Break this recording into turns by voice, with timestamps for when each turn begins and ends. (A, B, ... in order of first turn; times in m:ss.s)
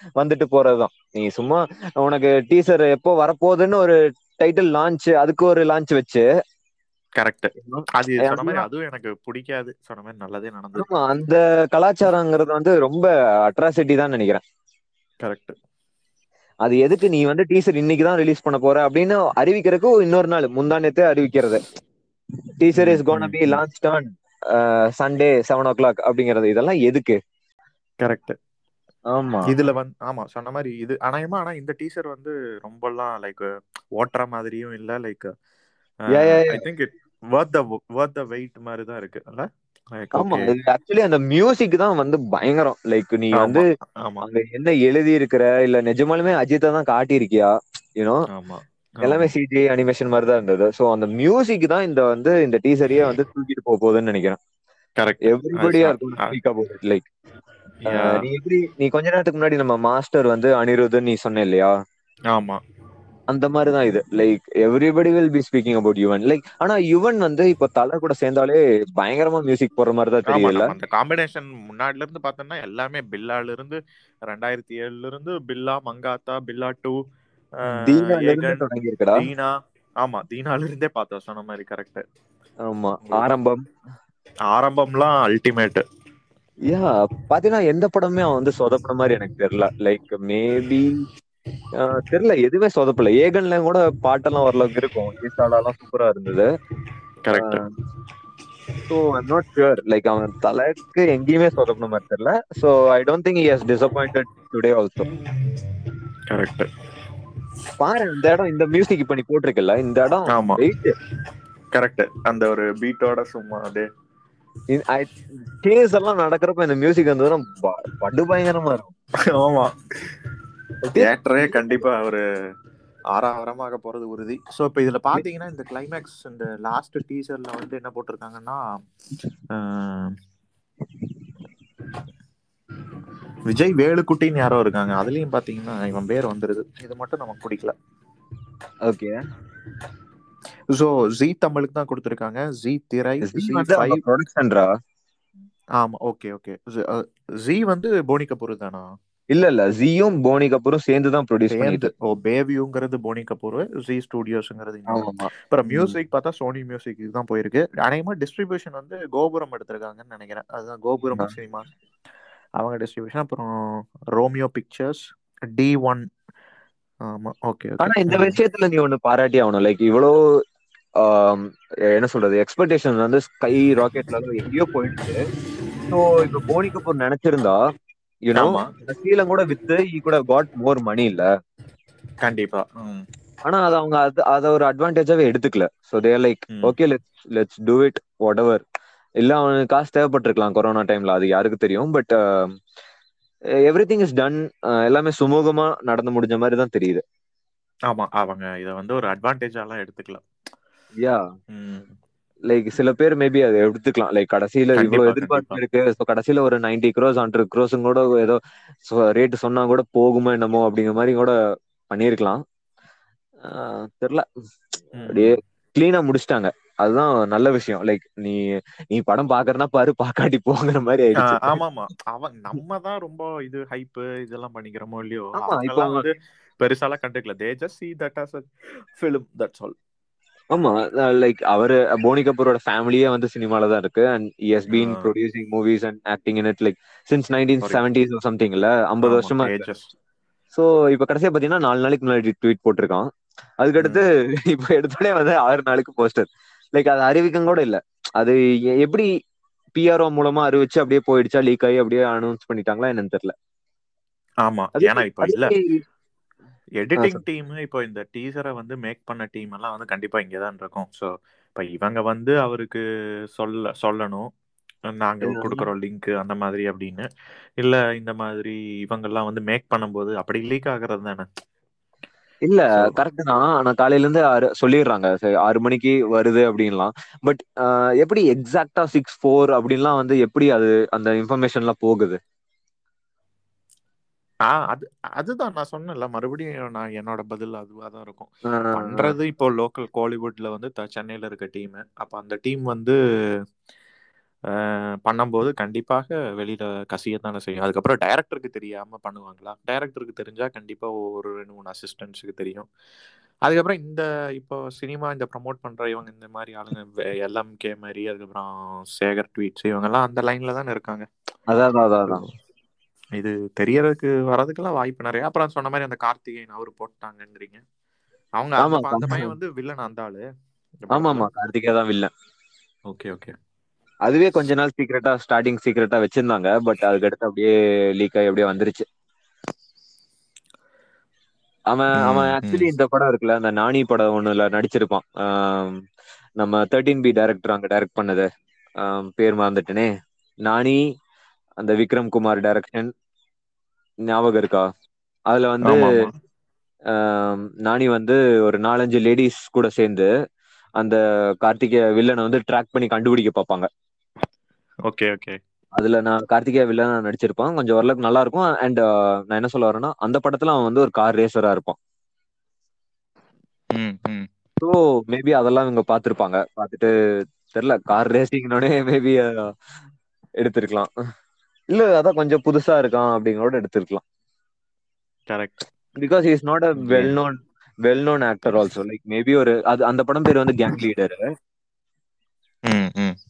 0:00.2-0:06.3 A
0:07.2-0:10.9 B
0:07.6-0:08.7 A
0:10.8-0:14.4 A
0:15.2-0:15.6 B
0:16.6-0:21.6 A
0:22.6-0:27.2 A
0:22.8-0:23.6 B
0:28.0-0:28.4 B
0:29.1-0:29.5 A
0:29.5-0:33.5 B
0:34.0-0:35.3 B
0:36.1-0:40.5 B
0:36.1-0:36.6 A
0:40.2-0:43.6 A
0:43.3-0:44.3 B
0:44.2-0:48.2 A
0:48.3-0:49.3 B
0:49.0-0:54.4 A
0:55.0-0:56.4 B
0:55.2-0:57.1 A
0:57.8-0:58.2 B
0:57.9-1:01.8 A
1:02.3-1:02.6 B
1:03.3-1:10.7 A
1:10.3-1:17.0 B
1:17.7-1:19.2 A
1:17.7-1:22.0 B
1:22.7-1:23.6 A
1:24.5-1:25.8 B
1:26.7-1:31.0 A
1:31.8-1:36.5 A
1:37.2-1:37.6 B
1:37.4-1:37.6 A
1:38.9-1:45.1 A
1:46.3-1:46.7 B
1:47.8-1:51.0 A
1:50.3-1:50.6 B
1:51.8-1:53.9 B
1:54.7-1:58.9 A
1:59.3-1:59.7 B
2:00.9-2:02.2 B
2:03.1-2:08.6 B
2:09.5-2:10.1 B
2:13.5-2:17.7 B
2:18.8-2:19.2 A
2:20.7-2:24.0 B
2:23.2-2:24.7 A
2:25.8-2:28.8 B
2:29.3-2:31.9 A
2:31.5-2:41.7 B
2:34.9-2:36.0 A
2:42.6-2:43.5 B
2:44.2-2:45.0 B
2:45.5-2:46.1 B
2:47.1-2:48.4 B
2:47.8-2:50.1 A
2:51.0-2:55.2 A
2:55.9-2:57.6 A
2:58.2-3:01.3 A
2:58.4-2:58.7 B
3:02.2-3:03.0 B
3:03.4-3:08.6 A
3:09.2-3:12.5 A
3:13.7-3:17.0 A
3:17.9-3:20.2 B
3:21.5-3:21.9 B
3:22.5-3:31.4 A
3:24.8-3:25.6 B
3:31.9-3:32.4 A
3:33.4-3:34.3 A
3:35.0-3:35.4 B
3:35.1-3:38.4 A
3:38.9-3:41.6 A
3:41.2-3:49.8 B
3:45.4-3:46.1 A
3:50.5-3:59.6 A
3:54.7-3:55.1 B
3:59.0-3:59.9 B
4:00.5-4:03.1 A
4:03.6-4:09.1 A
4:09.8-4:13.3 A
4:14.5-4:15.5 B
4:14.8-4:15.8 A
4:16.8-4:22.8 B
4:17.0-4:17.2 A
4:23.4-4:24.3 B
4:24.9-4:27.1 B
4:25.2-4:25.7 A
4:27.6-4:31.3 B
4:32.5-4:42.2 A
4:44.5-4:53.0 B
4:48.5-4:49.2 A
4:54.6-5:02.7 B
5:03.5-5:11.1 B
5:11.5-5:12.2 A
5:12.1-5:12.3 B
5:13.2-5:17.6 B
5:18.4-5:20.2 B
5:18.6-5:19.4 A
5:20.8-5:21.3 B
5:20.9-5:22.1 A
5:22.9-5:23.3 B
5:24.1-5:28.9 A
5:31.7-5:35.8 A
5:32.0-5:32.7 B
5:36.4-5:38.3 A
5:38.8-5:39.9 A
5:40.4-5:40.8 A
5:41.6-5:42.9 A
5:44.1-5:44.7 A
5:45.3-5:46.0 A
5:45.6-5:46.2 B
5:46.9-5:50.1 A
5:50.8-5:53.7 A
5:54.9-5:55.4 B
5:55.8-6:01.8 A
6:03.8-6:04.3 B
6:04.6-6:06.9 A
6:07.5-6:09.3 A
6:10.4-6:10.9 A
6:11.7-6:14.0 A
6:15.3-6:15.6 B
6:16.0-6:21.2 A
6:16.8-6:17.2 B
6:22.7-6:23.2 B